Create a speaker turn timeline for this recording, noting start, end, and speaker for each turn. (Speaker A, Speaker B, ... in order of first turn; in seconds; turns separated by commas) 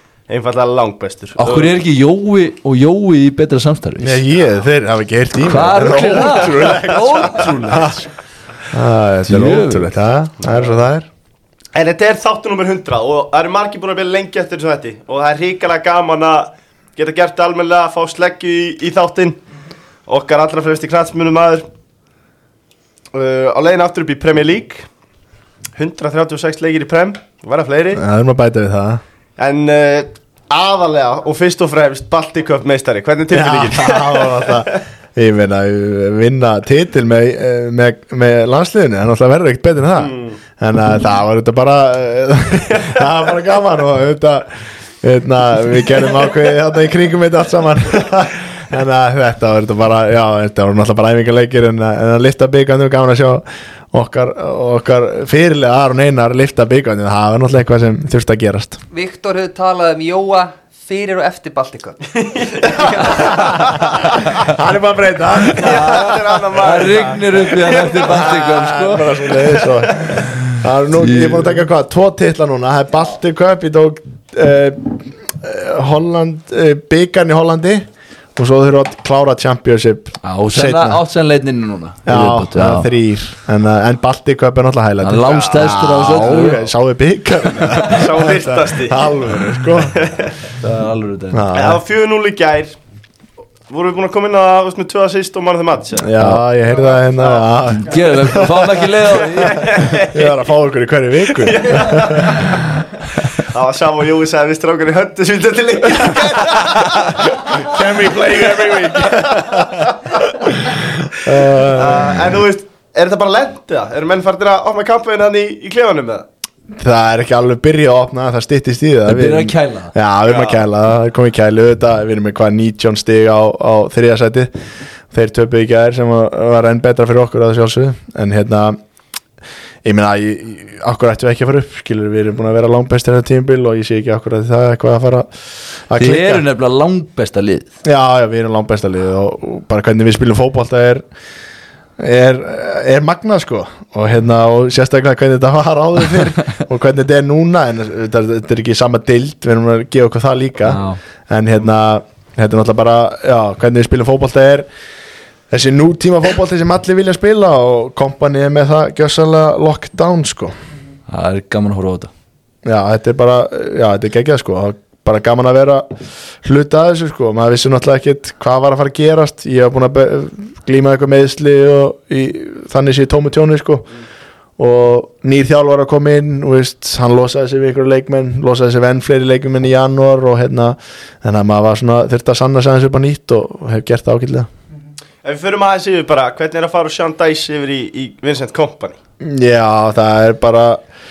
Speaker A: 0.3-1.7, Speaker B: 1.4-4.2, Speaker C: 4.0-7.9, Speaker B: 5.5-8.1, Speaker A: 5.8-7.3, Speaker C: 8.7-11.1, Speaker B: 9.2-9.9, Speaker A: 10.4-10.7, Speaker A: 11.7-19.4, Speaker A: 20.1-21.7, Speaker A: 23.1-24.9, Speaker A: 25.8-28.0, Speaker C: 27.9-29.0, Speaker A: 29.4-34.8, Speaker C: 33.3-58.8, Speaker A: 40.0-40.4, Speaker A: 42.6-43.0, Speaker D: 58.9-63.4, Speaker A: 62.2-64.3, Speaker C: 63.0-66.2, Speaker A: 65.5-68.4, Speaker B: 65.6-69.7, Speaker C: 68.1-81.0, Speaker B: 70.2-71.6, Speaker B: 80.2-82.9, Speaker C: 82.1-90.1, Speaker B: 85.0-86.7, Speaker A: 85.3-86.6, Speaker A: 87.7-89.2, Speaker A: 89.8-90.3, Speaker B: 90.6-91.4, Speaker C: 91.3-91.8, Speaker A: 91.5-92.8, Speaker A: 93.7-96.2, Speaker C: 96.0-98.7, Speaker A: 97.0-97.5, Speaker B: 97.8-99.9, Speaker A: 98.3-100.5, Speaker C: 99.4-102.5, Speaker A: 101.3-102.7, Speaker A: 103.3-109.7, Speaker C: 107.3-112.3, Speaker A: 111.3-116.3, Speaker C: 116.7-124.5, Speaker B: 119.1-119.9, Speaker A: 120.3-120.6, Speaker C: 125.1-128.8, Speaker C: 129.8-135.3, Speaker C: 135.9-136.4, Speaker B: 136.0-137.7, Speaker C: 137.8-141.0, Speaker C: 142.0-154.7, Speaker B: 150.7-151.0, Speaker C: 155.5-160.5, Speaker B: 161.1-162.1, Speaker C: 162.6-165.9, Speaker C: 166.4-173.9, Speaker C: 174.6-184.5, Speaker A: 185.2-189.0, Speaker C: 189.2-190.8